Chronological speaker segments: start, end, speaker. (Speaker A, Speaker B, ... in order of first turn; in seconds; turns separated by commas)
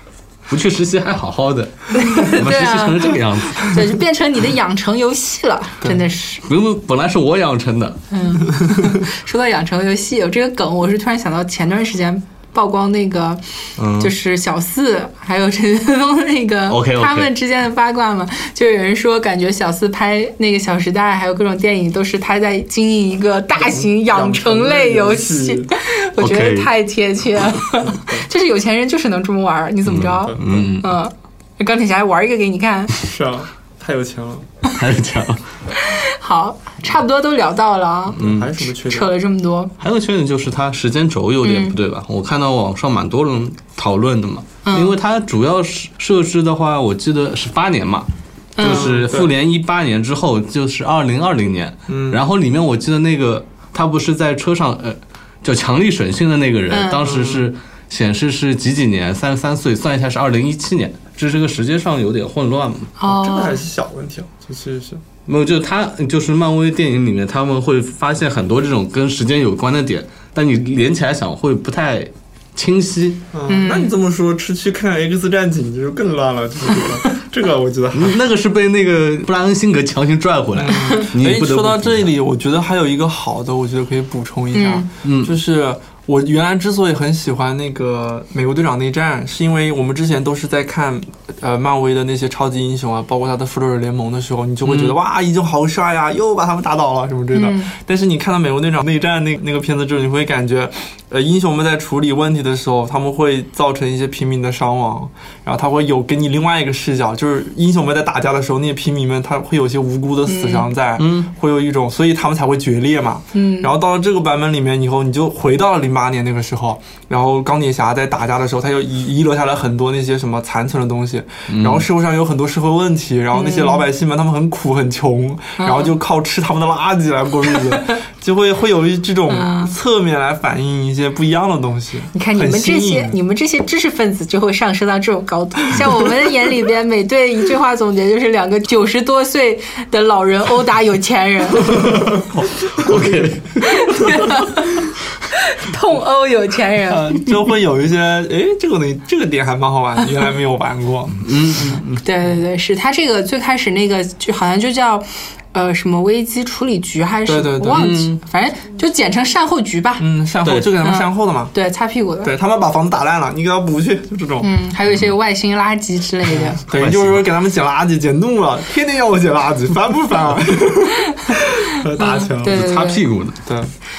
Speaker A: 0.5-4.0, Speaker B: 1.9-6.4, Speaker A: 6.4-8.0, Speaker B: 8.1-13.4, Speaker A: 13.8-14.1, Speaker B: 13.9-32.9, Speaker A: 16.7-17.3, Speaker C: 23.5-25.7, Speaker A: 26.2-26.7, Speaker C: 27.8-28.2, Speaker A: 29.9-31.0, Speaker C: 30.1-30.5, Speaker C: 33.0-34.5, Speaker A: 34.7-35.4, Speaker B: 35.7-39.7, Speaker C: 38.1-39.1, Speaker A: 38.2-38.5, Speaker A: 39.8-48.1, Speaker B: 41.4-41.8, Speaker B: 44.6-45.0, Speaker B: 48.5-49.0, Speaker A: 48.6-62.9, Speaker C: 48.6-49.3, Speaker C: 51.9-52.2, Speaker B: 56.7-57.2, Speaker C: 57.0-57.4, Speaker B: 63.0-63.6, Speaker C: 63.0-65.0, Speaker A: 65.2-73.2, Speaker C: 73.3-78.2, Speaker B: 73.5-73.9, Speaker A: 77.9-82.1, Speaker C: 80.6-133.2, Speaker B: 84.5-84.9, Speaker A: 85.0-85.3, Speaker A: 94.6-95.0, Speaker B: 97.3-97.7, Speaker B: 110.3-110.7, Speaker A: 111.0-111.3, Speaker B: 113.3-113.7, Speaker A: 121.5-121.9, Speaker B: 123.3-123.8, Speaker B: 125.6-125.9, Speaker B: 129.3-129.7, Speaker B: 132.1-142.1, Speaker C: 141.8-143.3, Speaker A: 141.9-144.4, Speaker B: 143.6-147.1, Speaker C: 146.8-151.7, Speaker A: 151.2-152.0, Speaker B: 152.0-160.0, Speaker C: 157.3-158.1, Speaker A: 157.7-158.2, Speaker C: 160.0-161.5, Speaker A: 160.4-160.7, Speaker B: 160.8-162.3, Speaker C: 162.2-164.5, Speaker B: 164.4-166.6, Speaker C: 166.3-172.6, Speaker A: 166.7-167.3, Speaker B: 171.1-173.0, Speaker A: 172.4-173.4, Speaker C: 173.4-173.7